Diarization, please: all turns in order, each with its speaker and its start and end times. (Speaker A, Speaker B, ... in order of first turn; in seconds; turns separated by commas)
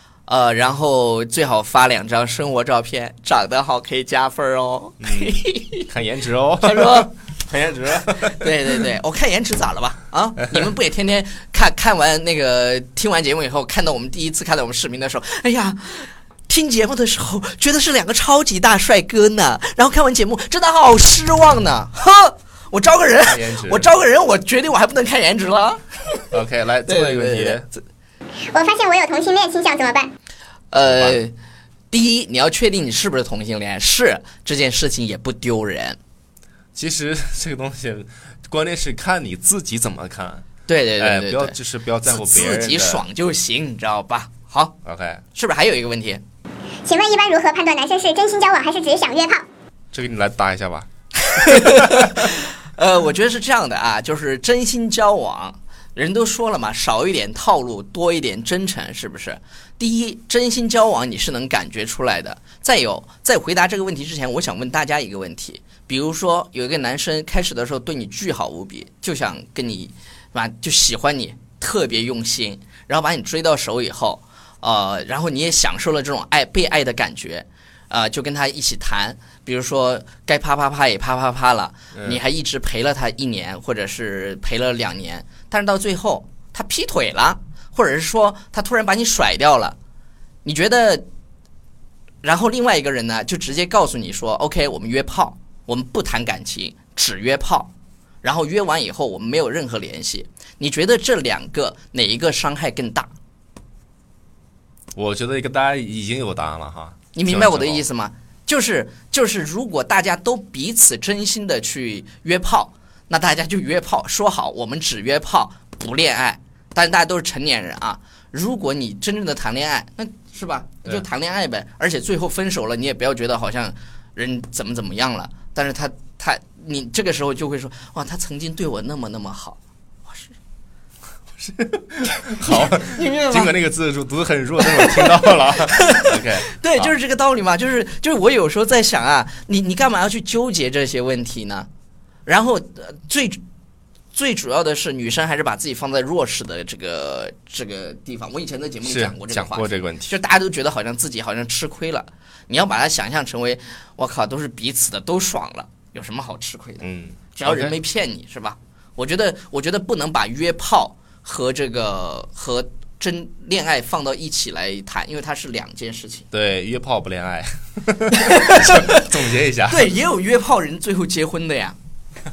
Speaker A: 0.3-5.9, Speaker B: 5.0-5.4, Speaker B: 5.9-8.5, Speaker A: 6.6-7.1, Speaker A: 7.9-26.3, Speaker B: 23.2-23.9, Speaker B: 26.3-27.7, Speaker A: 26.9-27.8, Speaker C: 28.5-30.1, Speaker A: 30.7-31.3, Speaker B: 30.9-31.2, Speaker A: 31.9-36.0, Speaker B: 36.8-40.5, Speaker A: 40.7-44.8, Speaker B: 41.0-43.0, Speaker B: 44.9-45.2, Speaker A: 45.3-46.2, Speaker C: 46.9-49.5, Speaker B: 49.9-50.9, Speaker A: 51.3-89.8, Speaker B: 51.5-51.8, Speaker B: 81.9-82.2, Speaker A: 90.5-91.0, Speaker A: 92.2-97.7, Speaker A: 98.2-103.1, Speaker B: 105.0-107.8, Speaker A: 107.2-130.3, Speaker B: 131.4-136.9, Speaker A: 132.4-133.5, Speaker A: 134.7-141.7, Speaker A: 142.3-143.4, Speaker A: 144.1-166.3, Speaker B: 148.8-150.1, Speaker B: 156.8-157.8, Speaker B: 166.3-169.9, Speaker A: 168.1-169.0, Speaker A: 169.7-171.8